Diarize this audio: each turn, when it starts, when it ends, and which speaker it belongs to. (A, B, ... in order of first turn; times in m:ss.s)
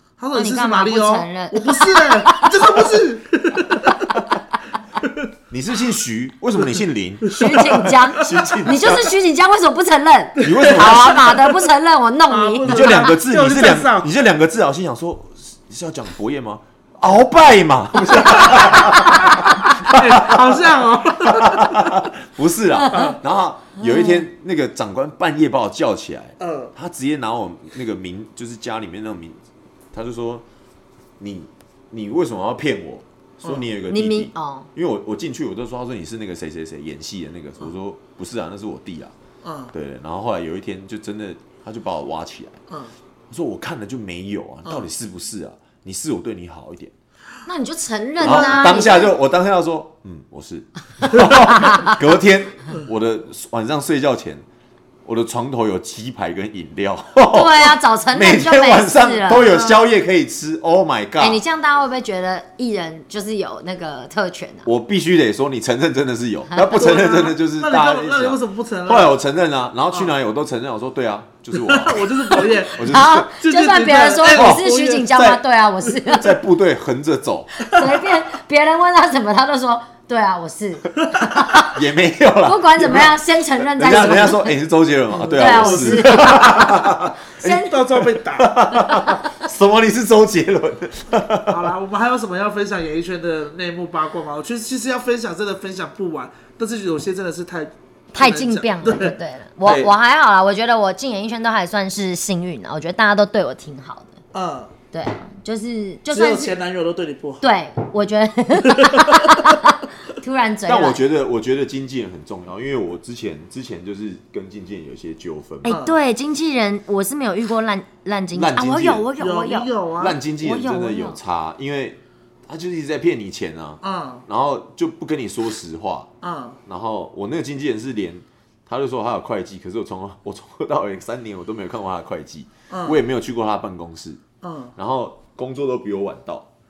0:00.2-0:04.1 A
0:00.3-0:02.9 B
0:05.5-0:09.1 C
0:07.3-0:13.0 B
0:07.4-0:08.3 A
0:10.4-0:11.5 C
0:10.4-0:10.9 A
0:12.3-0:14.1 A
0:12.6-0:29.4 C
0:18.3-0:18.9 A
0:19.9-0:21.9 A
0:22.8-0:23.2 B
0:22.9-0:23.2 A
0:23.8-0:24.2 B
0:26.4-0:26.7 A
0:29.9-0:30.4 C
0:31.2-0:39.1 C
0:33.4-0:33.7 A
0:33.9-0:34.7 B
0:39.4-0:39.7 A
0:39.7-0:42.6 C
0:42.7-0:42.9 A
0:43.3-0:46.9 C
0:47.4-0:49.1 B
0:48.2-0:54.4 C
0:48.2-0:48.8 A
0:51.1-0:52.0 B
0:55.0-1:01.4 C
0:57.3-0:59.6 B
0:59.4-0:59.8 A
1:01.2-1:04.7 B
1:04.6-1:13.3 C
1:06.5-1:06.8 B
1:06.7-1:09.2 A
1:11.5-1:15.4 A
1:12.3-1:16.4 B
1:14.3-1:15.3 C
1:15.9-1:17.7 C
1:17.6-1:21.7 B
1:21.6-1:31.7 C
1:22.4-1:24.6 B
1:25.2-1:27.7 B
1:25.2-1:26.5 A
1:27.4-1:28.6 A
1:28.7-1:29.4 B
1:31.5-1:39.2 A
1:38.1-1:44.2 B
1:39.6-1:39.9 C
1:44.3-1:44.7 A
1:44.9-1:46.5 B
1:46.1-1:47.4 A
1:47.4-1:51.0 B
1:48.7-1:49.6 A
1:50.6-1:55.8 C
1:55.6-1:59.7 B
1:55.6-1:56.0 A
1:58.3-1:59.1 C
1:59.2-2:00.2 A
2:00.0-2:06.1 C
2:00.4-2:01.2 B
2:03.8-2:04.2 A
2:06.2-2:06.6 A
2:06.6-2:14.2 C
2:12.7-2:13.0 A
2:14.4-2:14.7 A
2:14.8-2:16.5 C